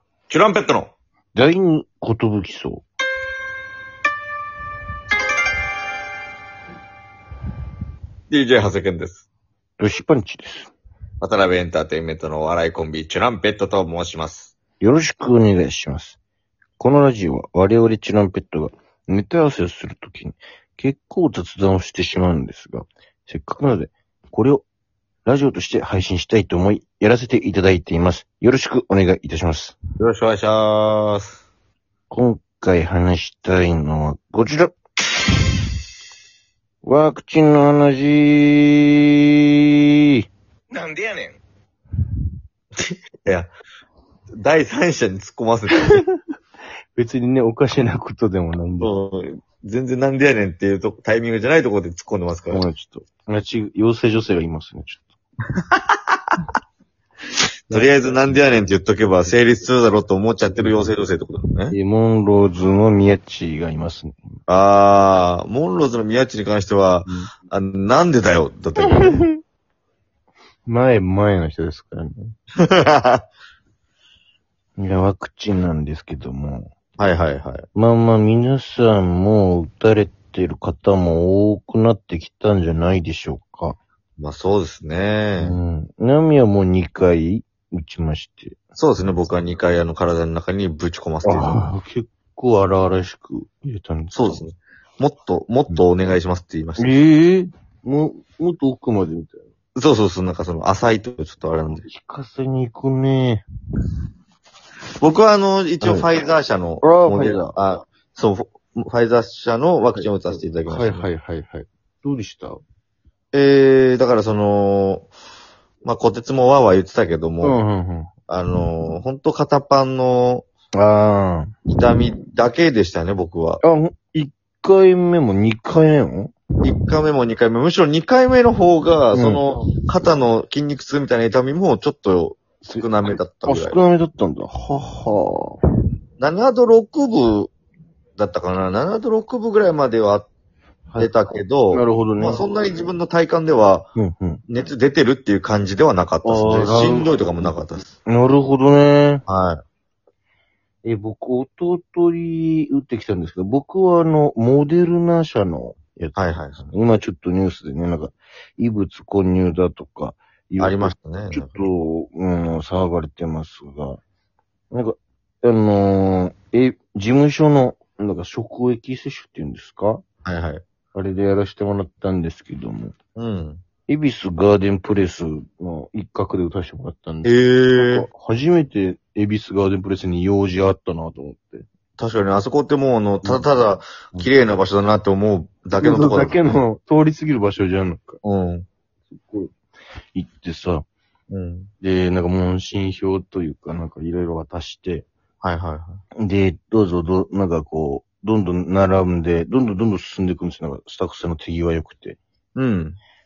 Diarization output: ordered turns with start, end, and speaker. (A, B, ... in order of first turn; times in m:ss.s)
0:00.3-0:00.9 A
0:01.3-0:02.8 B
0:08.3-0:09.3 A
0:09.8-0:10.7 B
0:11.2-0:14.5 A
0:14.8-0:16.2 B
0:16.8-0:24.6 B
0:25.2-0:29.8 B
0:30.0-0:31.4 A
0:32.1-0:34.8 B
0:36.8-0:38.9 B
0:40.7-0:41.4 B
0:42.8-0:43.5 A
0:44.4-0:46.0 A
0:45.7-0:46.0 B
0:46.9-0:49.0 B
0:48.8-0:52.6 A
0:52.5-0:55.1 B
0:57.7-1:01.8 A
0:57.7-0:58.4 B
1:00.5-1:00.9 B
1:01.7-1:04.2 B
1:04.5-1:09.2 A
1:08.9-1:09.3 B
1:10.6-1:12.3 B
1:12.6-1:13.2 A
1:14.8-1:16.7 B
1:17.0-1:17.6 A
1:17.8-1:23.8 B
1:24.2-1:25.6 A
1:25.4-1:28.6 B
1:28.8-1:31.6 A
1:31.2-1:34.4 B
1:34.1-1:36.9 A
1:36.8-1:39.4 B
1:39.8-1:41.8 A
1:41.8-1:43.4 B
1:45.0-1:51.1 A
1:45.8-1:46.1 B
1:46.8-1:47.5 B
1:50.6-1:52.6 B
1:53.3-1:55.1 A
1:55.8-1:57.6 A
1:57.4-1:58.1 B
1:58.3-2:00.4 A
2:00.8-2:01.5 B
2:01.7-2:03.6 A
2:03.6-2:06.4 B
2:06.6-2:13.8 A
2:09.1-2:09.4 B
2:12.6-2:15.6 B
2:16.2-2:17.5 A
2:18.2-2:20.3 A
2:20.9-2:22.4 B
2:21.0-2:23.9 A
2:24.0-2:24.4 B
2:24.5-2:27.9 A
2:26.2-2:27.1 B
2:28.0-2:29.2 B
2:29.3-2:29.6 A
2:30.8-2:36.2 B
2:36.2-2:36.7 A
2:36.7-2:44.0 B
2:40.6-2:41.7 A
2:44.7-2:50.0 B
2:50.2-2:50.6 A
2:50.9-2:53.0 B
2:53.2-2:53.6 A
2:53.9-3:01.7 B
2:57.2-2:58.1 A
3:02.0-3:06.4 A
3:05.7-3:08.2 B
3:08.2-3:08.7 A
3:09.1-3:09.5 B
3:10.1-3:10.8 B
3:11.3-3:11.7 A
3:11.8-3:15.1 B
3:15.4-3:16.0 A
3:16.2-3:22.2 B
3:22.6-3:23.0 A